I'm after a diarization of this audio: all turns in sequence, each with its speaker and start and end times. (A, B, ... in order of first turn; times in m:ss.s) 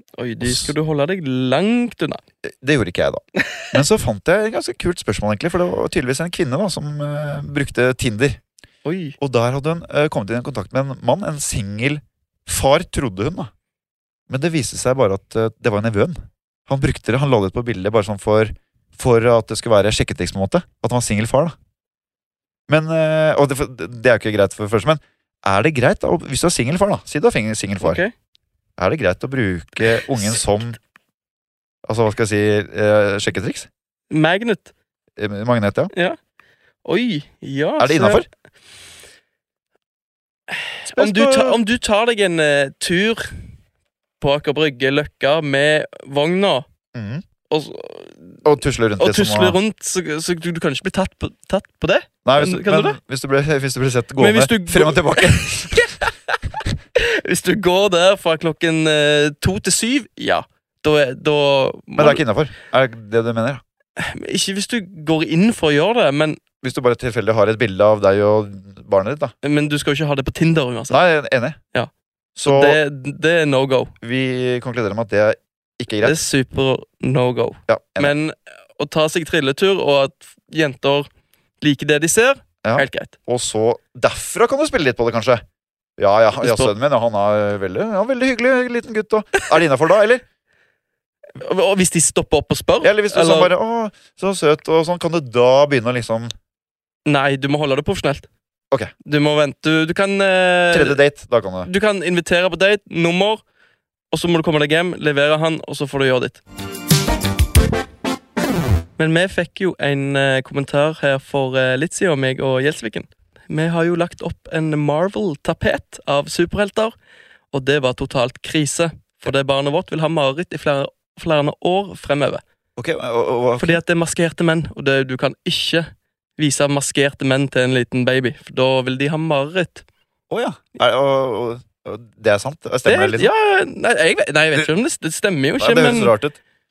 0:00.2-0:02.2 A
0:00.4-0:00.7 B
0:02.4-0:08.4 B
0:03.4-0:03.7 A
0:08.8-0:09.2 A
0:09.2-0:13.5 B
0:14.3-0:21.5 B
0:22.7-0:28.0 B
0:27.8-0:28.1 A
0:28.8-0:30.8 B
0:31.8-0:33.7 B
0:34.1-0:34.7 A
0:35.2-0:35.9 B
0:36.8-0:38.2 A
0:37.8-0:38.2 B
0:40.5-0:43.4 A
0:40.9-0:41.6 B
0:44.2-0:46.7 A
0:46.9-0:47.2 B
0:47.5-0:48.4 A
0:48.4-0:49.6 B
0:49.0-0:53.0 A
0:52.2-0:55.9 B
0:54.2-0:56.4 A
0:56.9-1:02.2 A
1:02.0-1:03.6 B
1:04.0-1:06.4 A
1:06.6-1:09.3 B
1:09.4-1:11.0 A
1:10.9-1:11.6 B
1:12.4-1:12.8 B
1:12.4-1:13.9 A
1:14.0-1:16.2 B
1:16.0-1:21.1 A
1:17.7-1:18.1 B
1:21.6-1:23.2 A
1:22.6-1:25.4 B
1:26.0-1:30.2 B
1:26.4-1:26.7 A
1:31.4-1:33.5 A
1:32.8-1:36.3 B
1:37.0-1:38.3 A
1:39.0-1:41.0 A
1:40.7-1:41.7 B
1:41.6-1:43.4 A
1:44.1-1:46.4 A
1:49.0-1:56.9 A
1:57.5-2:02.4 A
2:02.8-2:03.8 B
2:03.6-2:09.8 A
2:10.3-2:13.3 B
2:12.8-2:16.1 A
2:15.6-2:16.4 B